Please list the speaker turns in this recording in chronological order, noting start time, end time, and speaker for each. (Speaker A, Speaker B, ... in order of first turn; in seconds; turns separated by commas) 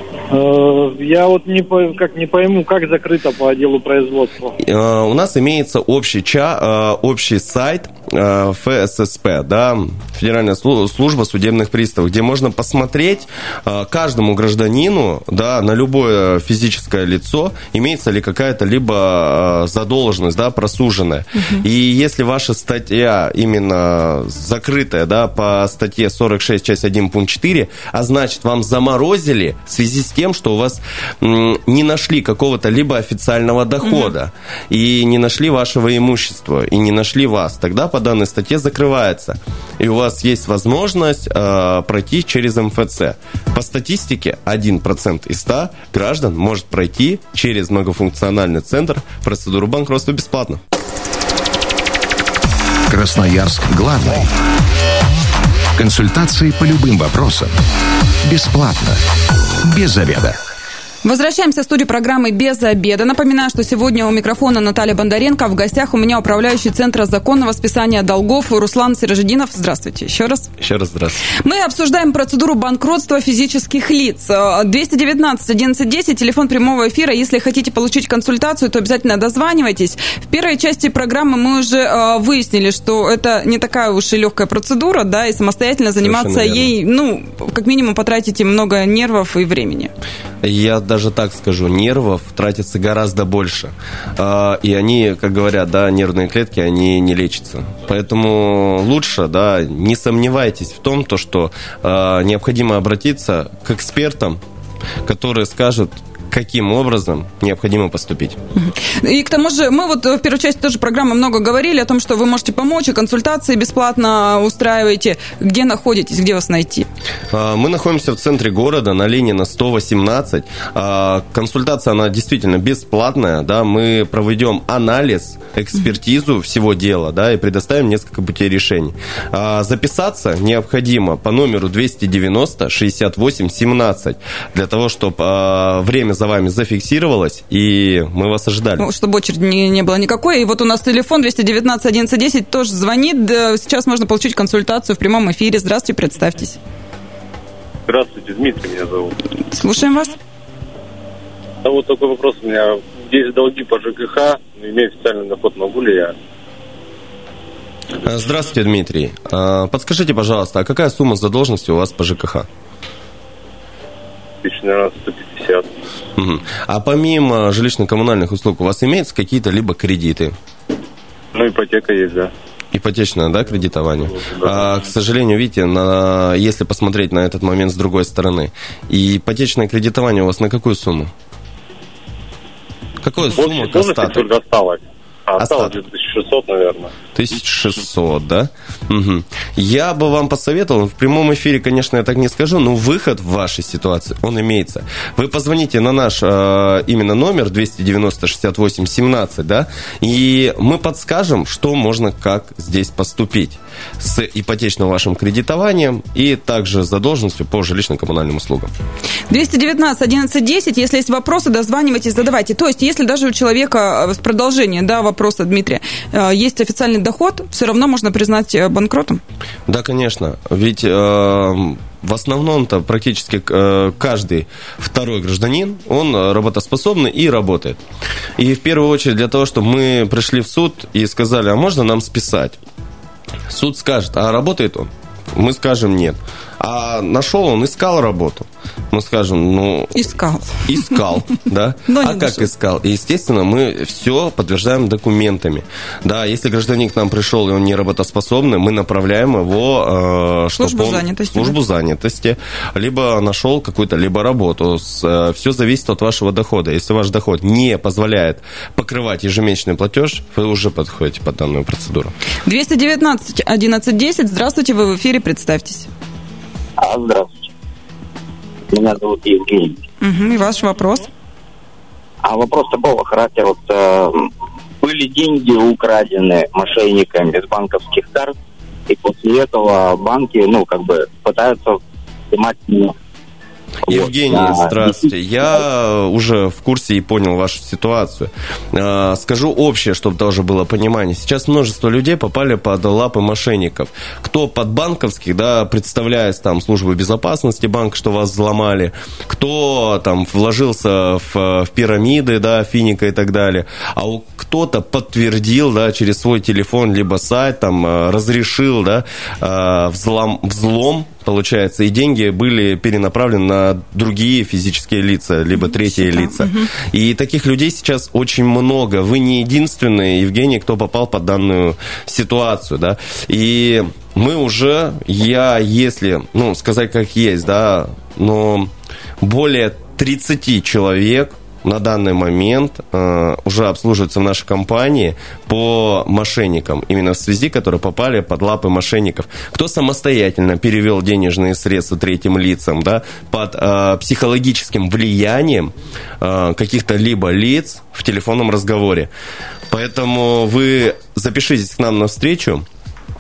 Speaker A: 0.3-4.5, Speaker B: 4.6-50.6, Speaker C: 52.9-54.3, Speaker C: 55.7-57.5, Speaker C: 58.2-59.0, Speaker C: 59.6-60.4, Speaker D: 61.0-70.5, Speaker B: 70.6-71.2, Speaker D: 71.3-89.9, Speaker B: 86.0-86.7, Speaker B: 90.4-104.4, Speaker B: 105.0-108.4, Speaker D: 108.5-116.9, Speaker B: 117.3-138.9, Speaker D: 138.8-146.6, Speaker E: 147.9-149.1, Speaker D: 149.5-150.2, Speaker E: 151.6-156.1, Speaker B: 158.0-162.5, Speaker E: 164.4-165.7, Speaker B: 166.2-170.3, Speaker E: 171.3-172.3, Speaker B: 172.7-181.1, Speaker E: 174.2-174.7, Speaker B: 183.0-184.3, Speaker E: 183.3-186.9, Speaker B: 185.4-185.8, Speaker B: 187.1-208.7, Speaker D: 209.3-219.2, Speaker B: 219.7-227.8, Speaker B: 228.4-232.6, Speaker B: 233.5-262.1, Speaker D: 239.9-240.9, Speaker D: 241.9-242.5, Speaker D: 250.6-251.6, Speaker D: 262.4-265.9, Speaker F: 266.8-267.5, Speaker F: 268.7-269.8, Speaker D: 270.0-271.1, Speaker F: 272.2-274.3, Speaker F: 274.8-278.3, Speaker F: 278.9-282.9, Speaker B: 283.8-349.1, Speaker F: 283.9-285.1, Speaker D: 315.7-316.7, Speaker B: 349.7-352.6